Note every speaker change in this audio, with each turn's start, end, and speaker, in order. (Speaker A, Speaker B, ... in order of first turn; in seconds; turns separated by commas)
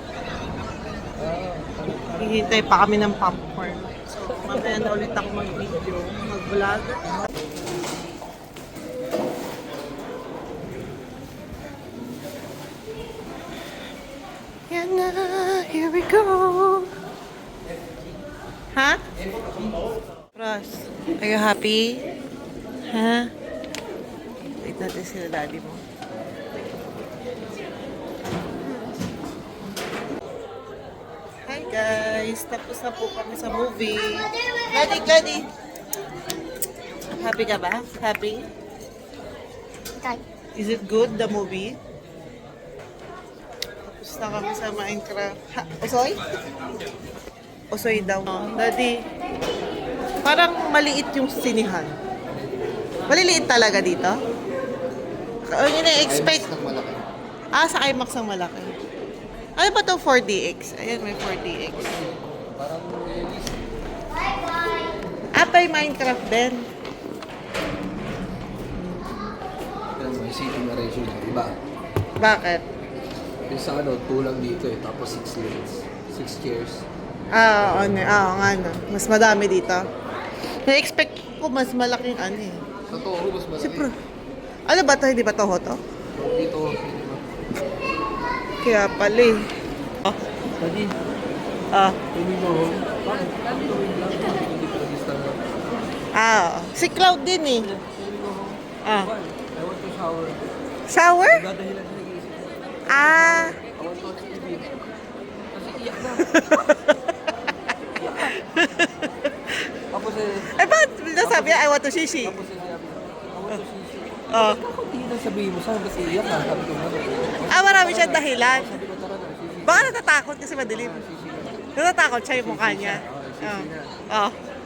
Speaker A: 1.2-2.1, Speaker B: 2.2-7.3, Speaker B: 14.7-16.9, Speaker B: 18.7-19.0, Speaker B: 20.4-22.0, Speaker B: 22.9-23.3, Speaker B: 24.6-25.8, Speaker B: 31.5-35.5, Speaker C: 33.9-35.1, Speaker B: 37.1-38.5, Speaker C: 40.0-40.2, Speaker B: 40.5-41.8, Speaker B: 43.8-46.2, Speaker B: 47.7-49.0, Speaker B: 50.2-51.9, Speaker A: 52.4-52.9, Speaker B: 53.1-54.2, Speaker B: 55.5-56.5, Speaker A: 56.0-57.1, Speaker B: 57.5-58.7, Speaker B: 59.6-62.0, Speaker A: 61.9-63.7, Speaker C: 64.3-64.9, Speaker B: 65.3-66.7, Speaker A: 70.0-71.6, Speaker B: 72.2-72.7, Speaker A: 73.5-76.9, Speaker B: 77.3-79.8, Speaker B: 80.7-82.6, Speaker A: 82.9-83.9, Speaker B: 83.6-83.9, Speaker B: 84.7-85.8, Speaker A: 86.2-87.3, Speaker B: 88.6-89.4, Speaker A: 90.6-90.9, Speaker B: 91.7-92.0, Speaker A: 92.1-95.4, Speaker B: 96.1-97.7, Speaker A: 97.6-100.5, Speaker B: 98.8-99.1, Speaker B: 100.9-101.4, Speaker A: 101.3-104.8, Speaker B: 102.9-103.6, Speaker A: 105.5-106.7, Speaker B: 106.2-106.9, Speaker A: 108.0-108.5, Speaker B: 108.4-109.1, Speaker A: 109.9-110.5, Speaker B: 110.5-112.4, Speaker A: 111.2-111.7, Speaker A: 112.2-120.0, Speaker B: 114.3-114.6, Speaker B: 117.5-118.8, Speaker B: 119.6-121.0, Speaker A: 120.7-121.7, Speaker B: 121.8-124.3, Speaker A: 122.3-124.0